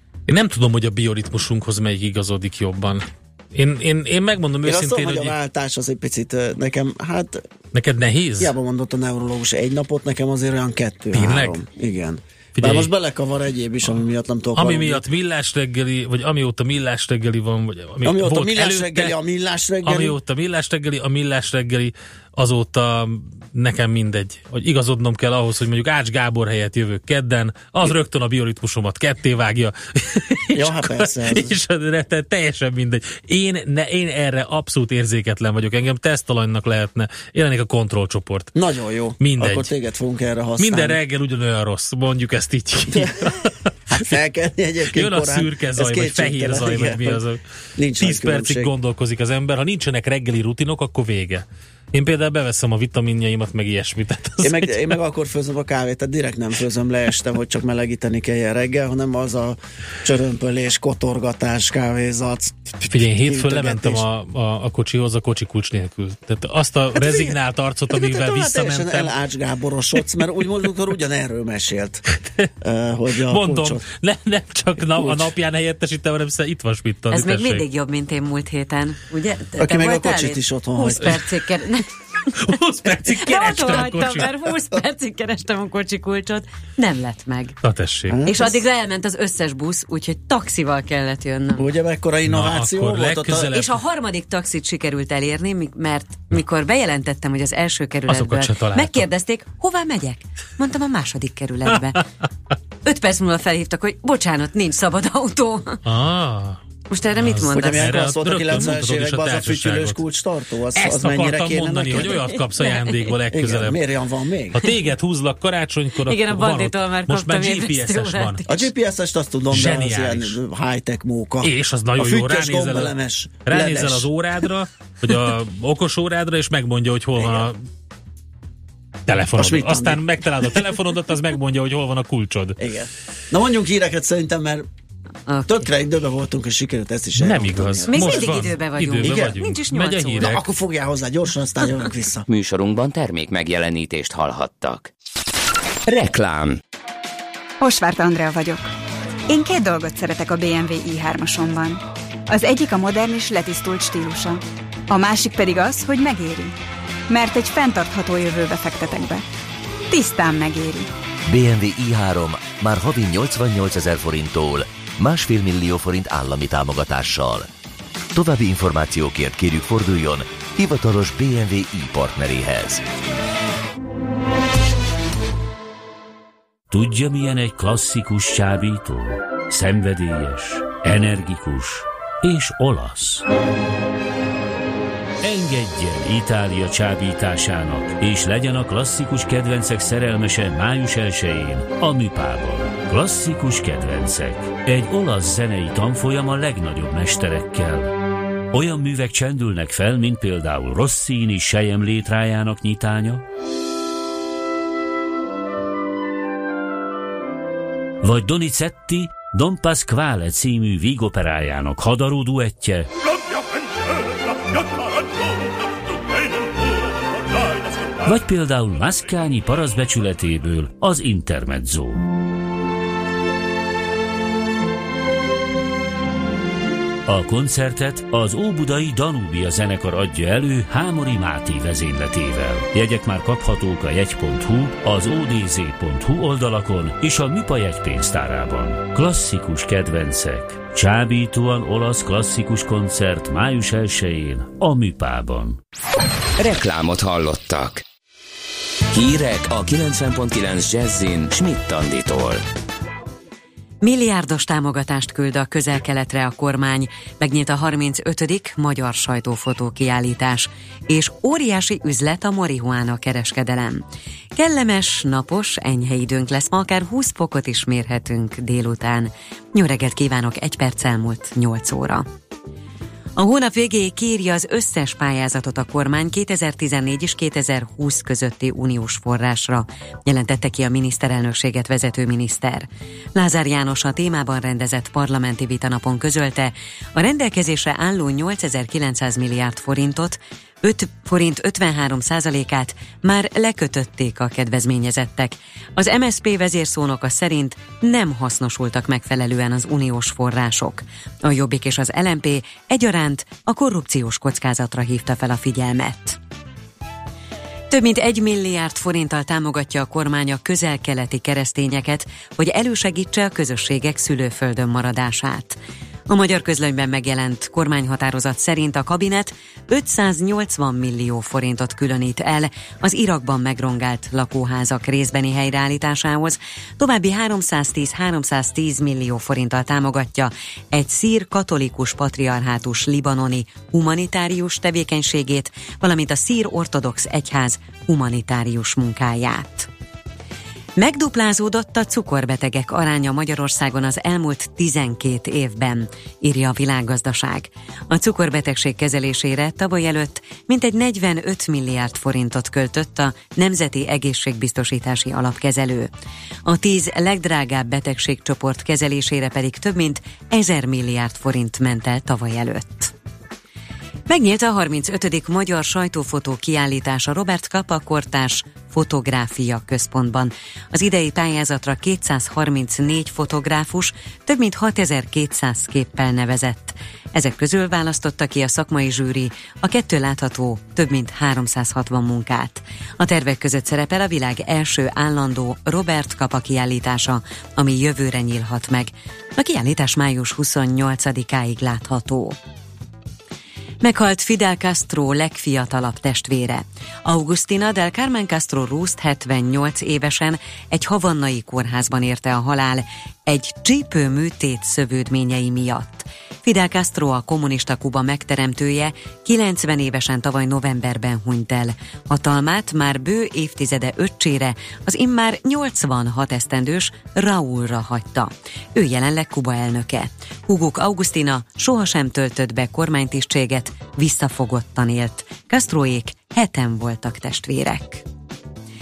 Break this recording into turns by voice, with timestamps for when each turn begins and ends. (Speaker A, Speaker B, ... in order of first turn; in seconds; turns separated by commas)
Speaker A: 0.3-5.3, Speaker B: 4.6-7.4, Speaker A: 7.7-8.5, Speaker B: 8.4-15.0, Speaker A: 11.1-11.6, Speaker A: 12.6-12.9, Speaker A: 14.6-19.1, Speaker B: 18.0-20.2, Speaker A: 19.8-38.5, Speaker B: 30.5-31.5, Speaker B: 38.5-41.0, Speaker A: 39.2-39.7, Speaker A: 40.6-43.5, Speaker B: 43.9-47.2, Speaker A: 44.9-47.4, Speaker B: 47.8-48.7, Speaker A: 48.0-54.9, Speaker B: 54.4-64.0, Speaker A: 62.9-69.1, Speaker B: 67.0-67.4, Speaker B: 67.9-72.0, Speaker B: 72.6-73.8, Speaker A: 73.3-77.6, Speaker B: 75.0-75.3, Speaker C: 77.1-81.9, Speaker B: 79.6-81.2, Speaker A: 82.3-84.4, Speaker C: 83.2-87.6, Speaker A: 87.6-88.2, Speaker B: 88.1-88.6, Speaker C: 88.3-91.7, Speaker B: 91.5-93.5, Speaker A: 92.3-93.8, Speaker C: 93.5-102.0, Speaker A: 98.1-99.0, Speaker C: 102.8-105.8, Speaker A: 105.9-106.6, Speaker C: 106.9-108.0, Speaker A: 107.2-110.0, Speaker B: 107.4-112.2, Speaker A: 110.8-113.8, Speaker C: 112.1-113.1, Speaker B: 113.3-114.7, Speaker A: 114.5-118.4, Speaker C: 116.1-118.7, Speaker B: 118.5-124.1, Speaker A: 119.5-120.4, Speaker A: 121.4-122.9, Speaker A: 123.5-127.6, Speaker B: 127.2-127.5, Speaker A: 129.1-132.6, Speaker B: 129.4-130.0, Speaker B: 132.6-134.7, Speaker C: 135.3-135.7, Speaker B: 135.5-138.3, Speaker A: 137.2-140.5, Speaker C: 137.9-140.3, Speaker B: 139.0-139.4, Speaker B: 140.2-142.3, Speaker D: 142.3-144.9, Speaker D: 145.9-146.6, Speaker E: 147.6-148.7, Speaker E: 149.3-156.6, Speaker E: 157.1-159.3, Speaker E: 159.9-160.9, Speaker F: 161.3-167.5, Speaker F: 168.1-172.9, Speaker G: 176.7-183.2, Speaker G: 185.2-197.9, Speaker G: 198.5-203.2, Speaker G: 208.0-212.9, Speaker G: 218.0-222.1, Speaker G: 227.1-245.6, Speaker D: 246.4-247.8, Speaker D: 248.9-252.4, Speaker C: 253.8-263.8, Speaker C: 264.4-272.1, Speaker C: 273.2-306.2, Speaker C: 307.7-339.7, Speaker C: 340.8-355.9, Speaker C: 356.4-362.9, Speaker C: 364.1-392.4, Speaker C: 393.8-428.0